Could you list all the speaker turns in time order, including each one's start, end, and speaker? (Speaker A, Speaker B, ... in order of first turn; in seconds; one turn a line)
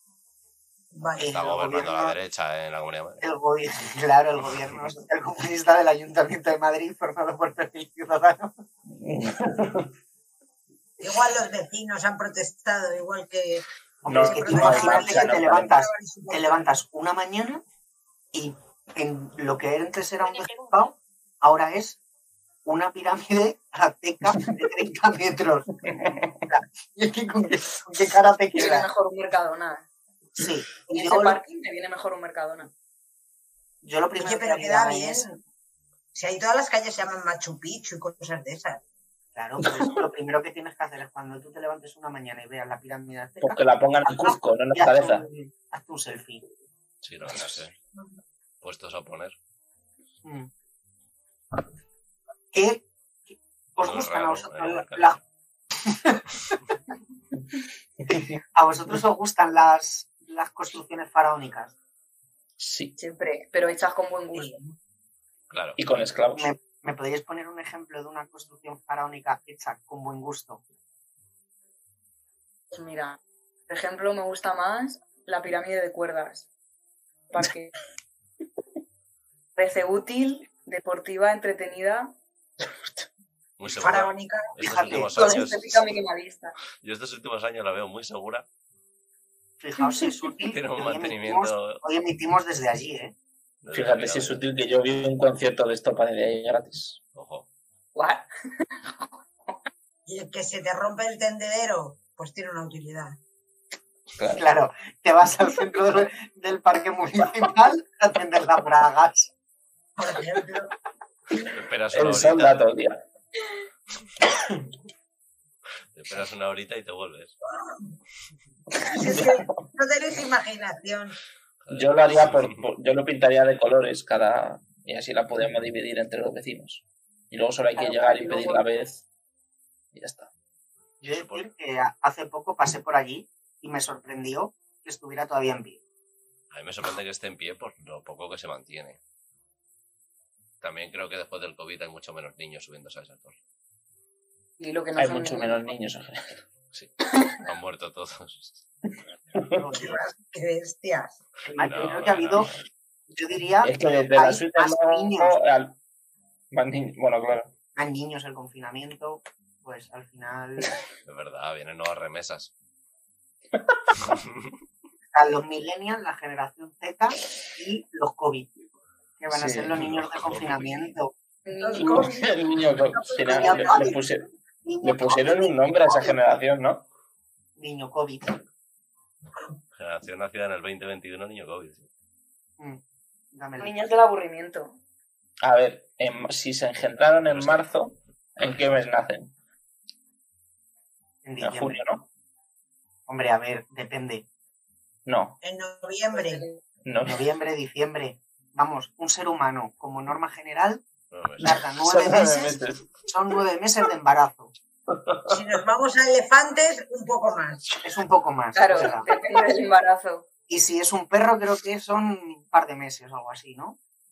Speaker A: 0.9-1.3
Speaker B: 1.1-3.2
Speaker C: 1.2-2.2
Speaker C: 3.2-8.5
Speaker D: 8.9-9.9
Speaker A: 11.0-16.7
Speaker C: 14.0-17.6
Speaker D: 14.1-15.7
Speaker C: 18.3-22.0
Speaker C: 22.6-25.8
Speaker D: 26.0-26.3
Speaker C: 26.5-28.9
Speaker E: 28.6-29.9
Speaker C: 30.4-31.4
Speaker E: 30.9-32.7
Speaker C: 33.8-35.3
Speaker A: 34.2-35.4
Speaker A: 36.1-38.8
Speaker C: 39.4-46.4
Speaker D: 43.4-45.2
Speaker B: 47.0-47.7
Speaker B: 48.6-49.4
Speaker C: 50.2-50.5
Speaker C: 52.5-52.8
Speaker C: 53.8-55.2
Speaker B: 53.8-55.2
Speaker C: 55.9-56.2
Speaker C: 58.5-61.7
Speaker D: 62.6-63.0
Speaker E: 63.0-64.6
Speaker B: 65.5-65.8
Speaker D: 65.8-66.5
Speaker C: 66.3-70.6
Speaker E: 72.7-76.5
Speaker E: 77.3-77.7
Speaker E: 79.6-82.1
Speaker D: 82.6-83.1
Speaker B: 83.6-85.9
Speaker A: 83.7-85.0
Speaker C: 84.6-85.3
Speaker E: 85.2-86.5
Speaker B: 86.8-88.5
Speaker C: 89.6-93.1
Speaker B: 90.5-91.8
Speaker B: 93.6-94.5
Speaker D: 93.7-97.0
Speaker B: 97.2-97.5
Speaker E: 98.0-98.3
Speaker A: 100.1-103.2
Speaker D: 104.2-104.4
Speaker C: 104.4-109.3
Speaker A: 110.0-110.7
Speaker B: 111.5-112.6
Speaker D: 111.9-113.0
Speaker B: 115.9-117.4
Speaker D: 118.8-119.5
Speaker A: 118.9-121.2
Speaker B: 121.6-122.6
Speaker D: 121.7-129.0
Speaker E: 127.8-128.7
Speaker D: 129.9-130.3
Speaker C: 131.0-135.8
Speaker B: 131.1-131.5
Speaker B: 136.5-139.0
Speaker B: 140.6-143.4
Speaker E: 144.6-145.7
Speaker D: 145.0-146.4
Speaker B: 146.7-148.6
Speaker C: 149.5-150.0
Speaker A: 149.7-151.2
Speaker C: 151.5-152.5
Speaker B: 151.6-152.6
Speaker C: 153.1-155.4
Speaker D: 153.6-155.8
Speaker D: 156.5-157.5
Speaker C: 157.8-160.8
Speaker B: 161.1-162.5
Speaker D: 163.6-164.2
Speaker C: 165.1-168.5
Speaker C: 169.2-171.1
Speaker D: 169.3-169.8
Speaker B: 169.8-170.9
Speaker E: 171.5-172.3
Speaker A: 171.6-174.0
Speaker D: 171.8-174.2
Speaker C: 173.3-174.0
Speaker C: 174.7-176.2
Speaker D: 174.8-176.9
Speaker C: 177.6-178.3
Speaker B: 179.8-181.9
Speaker C: 183.3-183.8
Speaker E: 183.6-184.8
Speaker D: 185.4-189.3
Speaker B: 187.3-187.7
Speaker C: 191.2-191.9
Speaker D: 191.4-192.0
Speaker C: 193.1-194.2
Speaker D: 195.1-195.4
Speaker A: 195.4-196.5
Speaker E: 196.1-196.6
Speaker D: 196.8-197.2
Speaker C: 197.1-200.8
Speaker B: 201.1-201.6
Speaker C: 201.4-204.5
Speaker D: 201.4-202.9
Speaker D: 204.9-205.4
Speaker A: 205.3-207.6
Speaker C: 207.8-209.1
Speaker E: 208.6-210.3
Speaker C: 210.5-213.8